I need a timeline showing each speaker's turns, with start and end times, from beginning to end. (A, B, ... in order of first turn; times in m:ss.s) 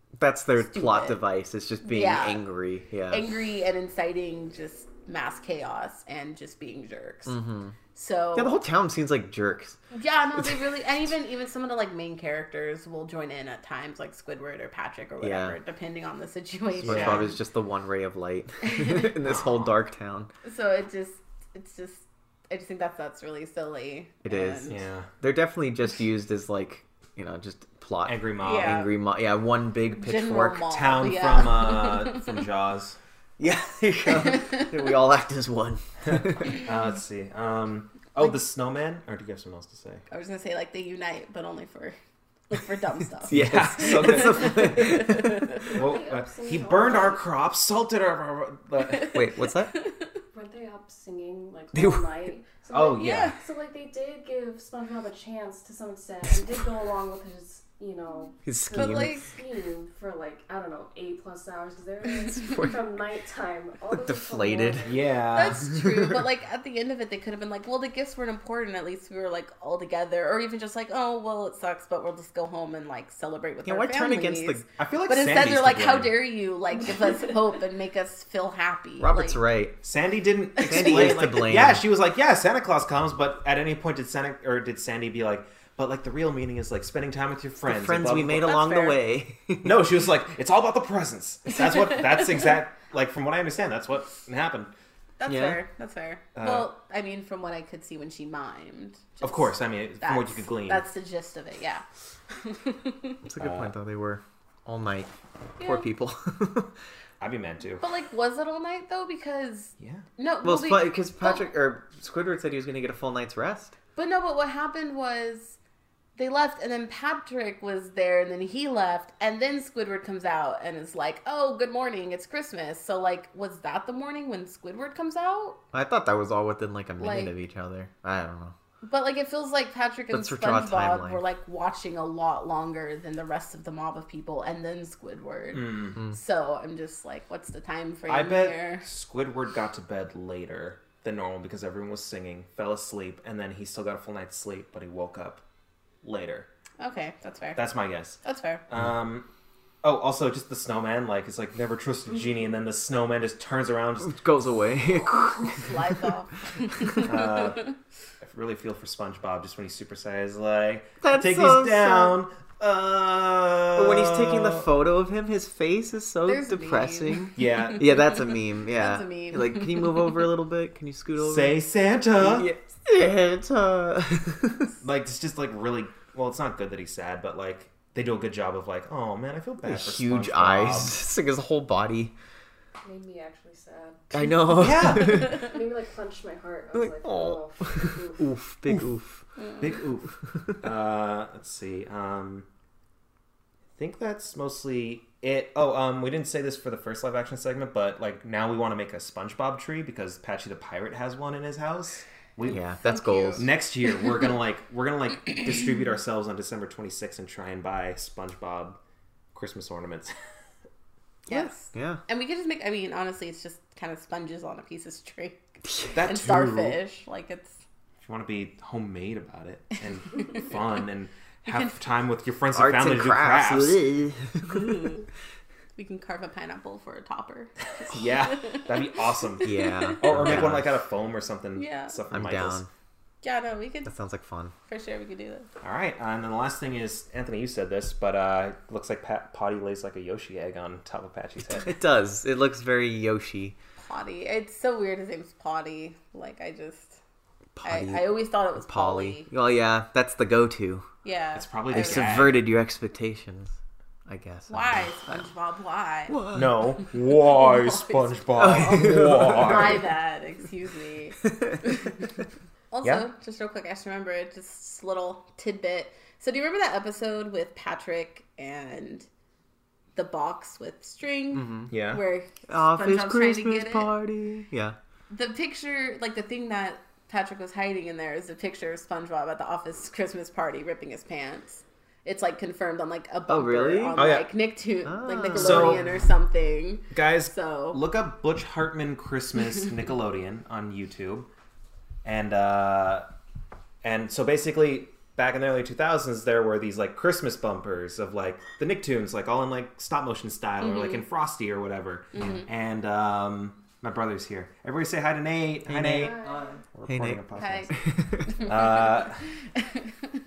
0:00.2-0:03.4 A
0:00.6-0:01.2 B
0:01.8-0:02.4 B
0:03.1-0:07.3 B
0:07.3-0:07.8 A
0:07.9-0:08.6 B
0:08.4-0:09.8 A
0:09.9-0:17.4 B
0:10.4-0:10.8 A
0:15.2-0:15.6 A
0:16.8-0:20.3 A
0:16.9-0:17.3 C
0:18.6-0:19.1 B
0:19.2-0:19.7 C
0:20.4-0:24.8 B
0:24.2-0:30.7 A
0:24.7-0:25.1 C
0:28.0-0:28.8 C
0:28.4-0:28.9 B
0:30.0-0:32.3 B
0:30.7-0:33.0 C
0:33.4-0:36.6 A
0:34.3-0:34.6 B
0:36.5-0:40.0 C
0:40.1-0:42.0 B
0:42.5-0:45.8 B
0:43.3-0:45.6 A
0:43.3-0:44.8 C
0:45.6-0:47.2 D
0:45.7-0:49.2 C
0:48.8-0:50.2 B
0:49.1-0:49.7 A
0:50.3-1:05.0 D
0:51.7-0:52.1 A
0:52.7-0:53.3 C
0:52.9-0:53.4 B
0:58.4-0:59.2 A
0:58.8-0:59.3 B
1:02.2-1:02.8 A
1:03.9-1:05.0 A
1:04.8-1:05.7 C
1:05.3-1:19.4 B
1:05.7-1:06.2 A
1:13.7-1:14.6 A
1:14.8-1:16.2 C
1:19.0-1:19.8 A
1:19.8-1:28.5 C
1:20.6-1:21.2 B
1:20.6-1:21.8 A
1:27.6-1:29.9 A
1:28.4-1:29.0 B
1:29.6-1:34.7 C
1:35.2-1:43.2 B
1:35.3-1:35.6 A
1:36.4-1:36.7 C
1:39.2-1:40.9 C
1:43.3-1:45.1 A
1:43.4-1:43.7 C
1:45.6-1:45.9 B
1:45.6-1:46.8 A
1:47.2-1:47.8 C
1:47.8-1:51.5 B
1:49.8-1:50.0 C
1:50.4-1:53.8 A
1:54.0-1:55.6 B
1:56.2-2:05.6 B
2:05.7-2:08.6 A
2:07.0-2:07.4 B
2:08.8-2:18.9 B
2:10.1-2:11.2 A
2:15.5-2:16.0 C
2:18.1-2:25.4 C
2:26.0-2:26.5 C
2:26.8-2:27.6 B
2:27.6-2:29.3 C
2:28.2-2:28.6 B
2:29.8-2:34.2 C
2:34.0-2:35.8 A
2:35.4-2:37.7 B
2:36.8-2:37.1 A
2:37.0-2:37.6 C
2:38.2-2:44.7 C
2:41.0-2:42.2 A
2:43.8-2:51.6 A
2:46.3-2:50.2 B
2:47.4-2:48.0 C
2:51.2-2:52.5 C
2:52.2-2:54.7 A
2:54.8-3:01.0 C
2:59.6-3:02.1 A
3:02.8-3:08.4 D
3:04.1-3:05.5 A
3:04.5-3:05.4 C
3:06.7-3:09.2 A
3:09.6-3:12.5 C
3:10.2-3:10.6 A
3:13.8-3:22.6 C
3:22.5-3:23.5 A
3:22.5-3:23.5 B
3:23.4-3:28.8 C
3:29.3-3:30.1 C
3:31.3-3:37.6 B
3:31.3-3:32.0 A
3:35.9-3:36.8 C
3:38.0-3:43.8 C
3:41.5-3:41.7 B
3:42.5-3:44.9 A
3:44.5-3:45.1 B
3:45.8-3:48.7 B
3:47.8-3:52.6 C
3:49.4-3:50.0 B
3:49.4-3:50.7 A
3:51.6-3:52.0 B
3:52.1-3:52.7 A
3:53.2-3:53.9 B
3:53.9-3:54.5 A
3:54.7-3:55.5 B
3:55.6-4:01.7 C
4:01.6-4:03.6 A
4:03.8-4:07.0 B
4:07.6-4:10.9 A
4:07.6-4:09.3 B
4:11.0-4:12.2 B
4:11.4-4:12.4 C
4:11.7-4:13.6 A
4:14.1-4:15.3 A
4:14.5-4:16.2 B
4:16.1-4:16.5 A
4:16.3-4:19.9 C
4:17.1-4:18.6 B
4:18.4-4:19.9 A
4:19.2-4:21.9 B
4:22.7-4:29.1 B
4:30.0-4:33.9 B
4:31.3-4:31.7 A
4:31.7-4:32.0 C
4:32.5-4:34.8 A
4:35.1-4:47.8 B
4:43.3-4:44.0 A
4:44.0-4:44.3 C
4:44.8-4:45.9 A
4:45.4-4:45.9 C
4:46.9-4:51.3 C
4:52.0-4:53.1 C
4:53.8-5:07.7 C
5:00.6-5:01.0 B
5:02.1-5:02.5 B
5:05.7-5:06.3 A
5:06.9-5:08.4 A
5:07.4-5:07.8 B
5:08.3-5:08.9 B
5:08.4-5:09.2 C
5:09.6-5:10.1 B